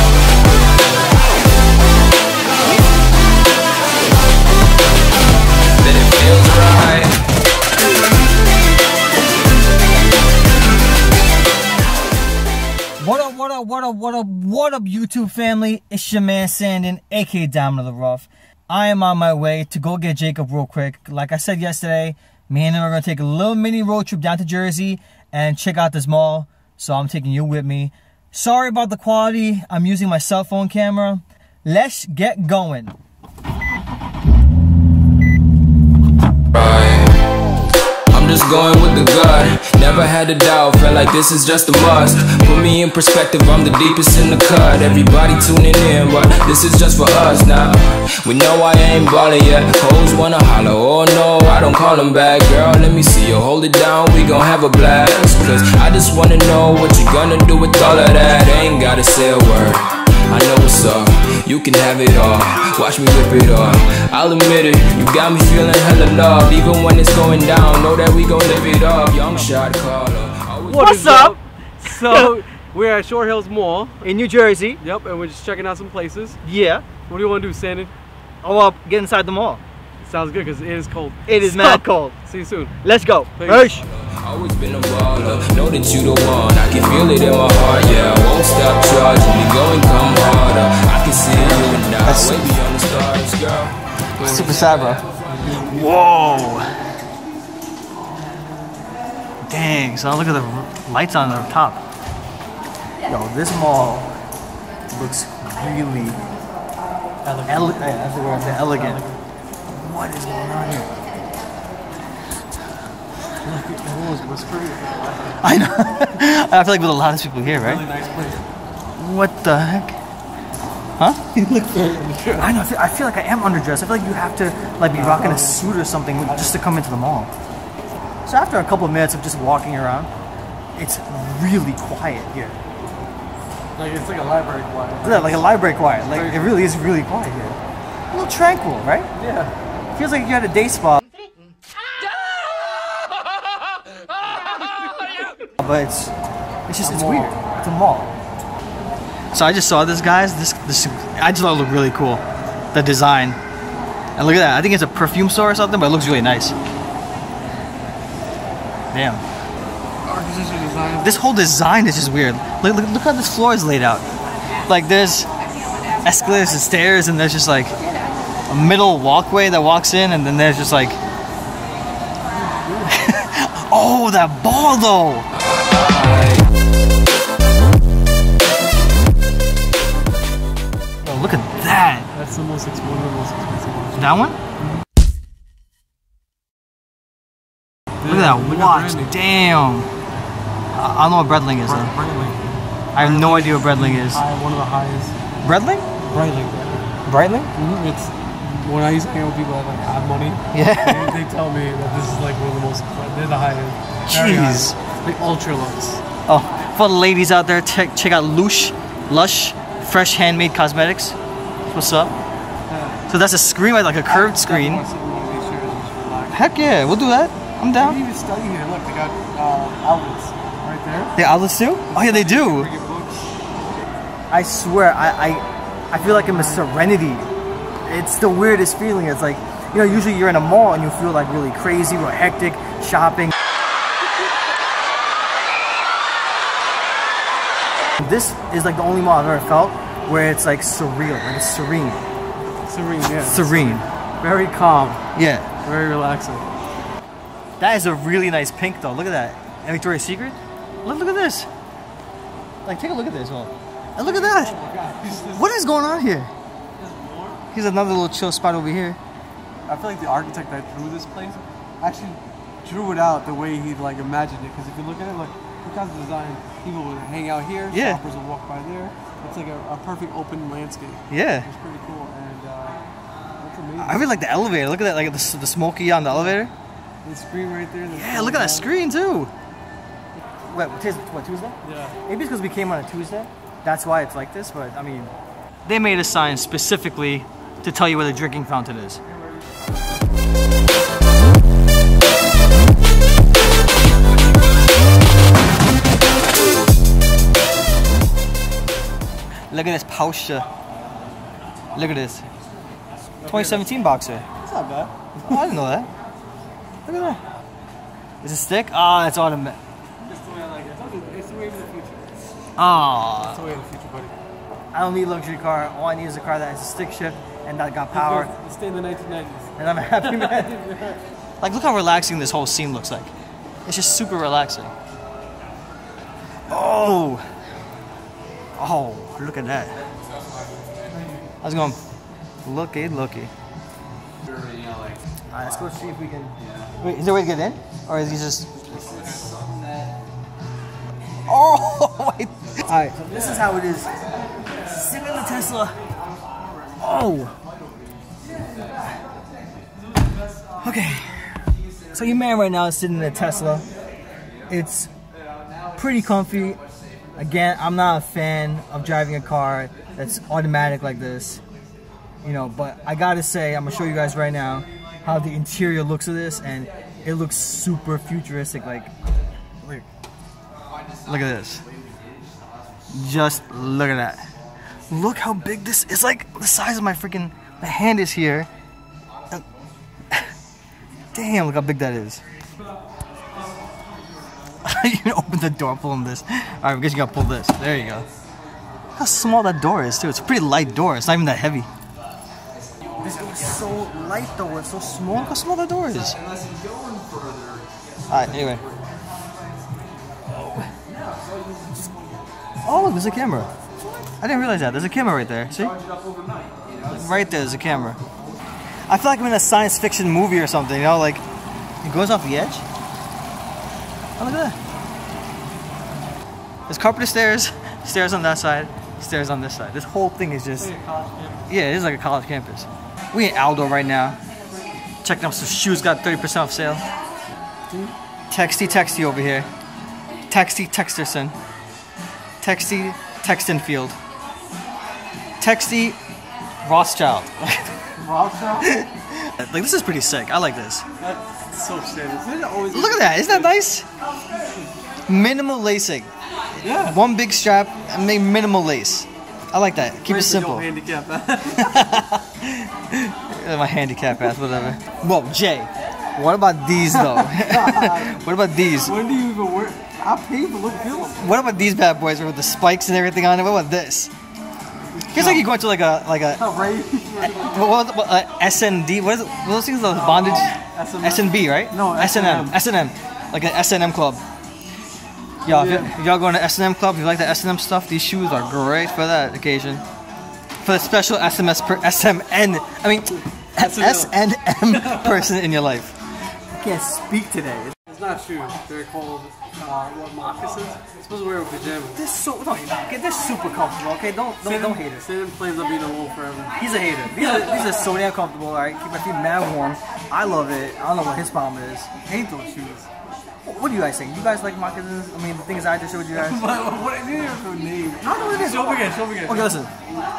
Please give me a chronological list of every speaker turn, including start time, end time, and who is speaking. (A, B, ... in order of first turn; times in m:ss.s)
0:05.8-0:07.2 A
0:13.0-0:33.0 B
0:36.5-0:37.1 A
0:38.1-1:10.8 A
1:10.6-1:14.1 C
1:10.7-1:12.3 B
1:14.0-1:14.8 B
1:14.8-1:16.4 C
1:16.4-1:16.9 B
1:17.0-1:17.9 C
1:18.4-1:19.6 B
1:20.0-1:22.8 C
1:21.3-1:22.2 B
1:22.8-1:23.8 B
1:23.4-1:23.8 C
1:23.8-1:35.1 A
1:32.0-1:32.6 B
1:34.2-1:36.7 B
1:35.3-1:35.9 C
1:39.5-1:41.8 B
1:43.1-1:44.1 B
1:44.9-1:46.3 B
1:47.2-1:49.2 C
1:47.5-1:49.0 B
1:49.7-1:50.9 B
1:53.4-1:55.5 C
1:55.4-1:57.8 B
1:57.4-1:58.5 C
1:59.0-2:00.0 B
2:01.0-2:01.3 B
2:01.3-2:02.6 C
2:02.4-2:07.3 B
2:04.8-2:06.6 C
2:08.3-2:10.1 B
2:10.8-2:12.6 B
2:13.8-2:16.6 C
2:15.0-2:17.6 B
2:18.1-2:19.1 B
2:19.2-2:19.5 C
2:20.0-2:21.0 B
2:25.6-2:26.1 B
2:26.7-2:28.1 B
2:26.8-2:27.4 C
2:29.3-2:32.2 B
2:32.7-2:33.4 B
2:34.2-2:36.6 B
2:38.9-2:39.2 B
2:40.1-2:41.3 C
2:41.0-2:44.0 B
2:44.7-2:45.3 B
2:46.0-2:47.8 B
2:48.5-2:51.0 B
2:52.4-2:52.9 C
2:52.9-2:55.3 B
2:55.5-2:56.4 A
3:01.0-3:02.1 B
3:02.1-3:04.1 C
3:04.0-3:04.4 B
3:08.0-3:09.2 C
3:08.0-3:09.9 B
3:10.7-3:11.9 B
3:11.6-3:12.4 C
3:13.0-3:14.2 B
3:13.0-3:15.1 C
3:15.4-3:15.9 B
3:16.0-3:16.8 C
3:17.1-3:17.5 B
3:17.6-3:26.0 C
3:20.5-3:21.2 B
3:24.1-3:24.8 B
3:26.3-3:31.2 B
3:31.7-3:32.2 B
3:32.7-3:33.0 C
3:33.1-3:34.8 B
3:34.1-3:36.5 C
3:36.3-3:38.0 B
3:37.8-3:41.2 C
3:41.2-3:42.7 B
3:41.9-3:43.3 C
3:44.3-3:47.3 B
3:46.0-3:46.8 C
3:47.8-3:53.3 B
3:58.0-4:02.1 B
4:02.6-4:05.0 C
4:03.2-4:03.9 B
4:05.2-4:05.5 B
4:05.6-4:06.5 C
4:07.6-4:11.5 B
4:12.6-4:14.6 B
4:14.0-4:15.5 C
4:15.3-4:16.3 B
4:16.8-4:17.4 C
4:17.5-4:19.0 B
4:19.7-4:32.8 C
4:27.7-4:28.0 B
4:31.1-4:31.5 B
4:33.4-4:34.2 C
4:33.8-4:36.5 B
4:36.1-4:36.4 C
4:37.0-4:38.7 C
4:37.9-4:39.3 B
4:40.5-4:45.1 B
4:41.6-4:42.0 C
4:45.7-4:49.0 B
4:59.5-5:00.5 B
5:01.8-5:02.2 B
5:03.2-5:03.7 C
5:03.3-5:04.3 B
5:04.4-5:05.5 C
5:05.2-5:05.9 B
5:06.9-5:07.2 B
5:08.2-5:09.6 B
5:10.0-5:12.1 C
5:12.6-5:13.4 B
5:13.2-5:14.1 C
5:14.7-5:18.3 B
5:17.9-5:21.0 C
5:19.6-5:20.6 B
5:21.4-5:23.1 B
5:23.7-5:24.7 B
5:26.5-5:27.2 B
5:28.6-5:29.8 B
5:30.8-5:31.2 C
5:31.4-5:31.8 B
5:32.4-5:33.3 B
5:35.3-5:38.5 B
5:38.7-5:39.3 C
5:41.3-5:43.9 B
5:43.2-5:43.4 C
5:44.6-5:45.8 B
5:46.1-5:46.8 C
5:46.8-5:47.4 B
5:49.8-5:50.5 C
5:50.6-5:51.1 B
5:51.9-5:53.7 B
5:54.5-5:54.9 B
5:55.8-5:56.6 B
5:57.2-6:01.4 B
6:02.2-6:08.9 B
6:11.1-6:11.6 B
6:12.9-6:14.3 B
6:14.9-6:18.5 B
6:21.1-6:22.2 B
6:24.6-6:28.1 B
6:29.0-6:31.7 B
6:33.0-6:36.2 B
6:38.1-6:38.6 B
6:38.1-6:38.5 C
6:40.8-6:41.8 C
6:42.6-6:43.5 B
6:44.2-6:45.8 B
6:46.8-6:47.4 C
6:46.9-6:48.0 B
6:48.9-6:51.2 B
6:51.8-6:52.6 B
6:54.2-6:54.6 B
6:56.7-7:00.7 B
7:00.6-7:01.6 C
7:01.5-7:04.2 B
7:05.0-7:06.9 B
7:08.3-7:09.5 B
7:10.3-7:11.4 B
7:12.4-7:14.0 B
7:15.4-7:16.0 B
7:16.6-7:17.7 B
7:18.0-7:18.9 C
7:18.6-7:20.8 B
7:21.0-7:23.6 C
7:22.7-7:23.8 B
7:25.1-7:26.1 B
7:26.6-7:27.0 C
7:26.7-7:30.7 B
7:30.0-7:32.1 C
7:31.6-7:39.0 B
7:36.9-7:41.3 C
7:41.2-7:44.1 B
7:44.9-7:45.5 C
7:45.1-7:46.4 B
7:46.4-7:47.6 C
7:47.2-7:54.2 B
7:49.9-7:52.6 C
7:55.4-7:56.0 C
7:55.5-7:59.8 B
8:00.6-8:06.0 B
8:03.6-8:05.3 C
8:06.6-8:07.8 B
8:07.9-8:12.0 C
8:11.9-8:15.0 B
8:14.4-8:16.6 C
8:16.6-8:21.9 B
8:17.1-8:17.9 C
8:22.0-8:22.9 C
8:23.4-8:26.5 B
8:26.1-8:29.7 C
8:28.0-8:29.7 B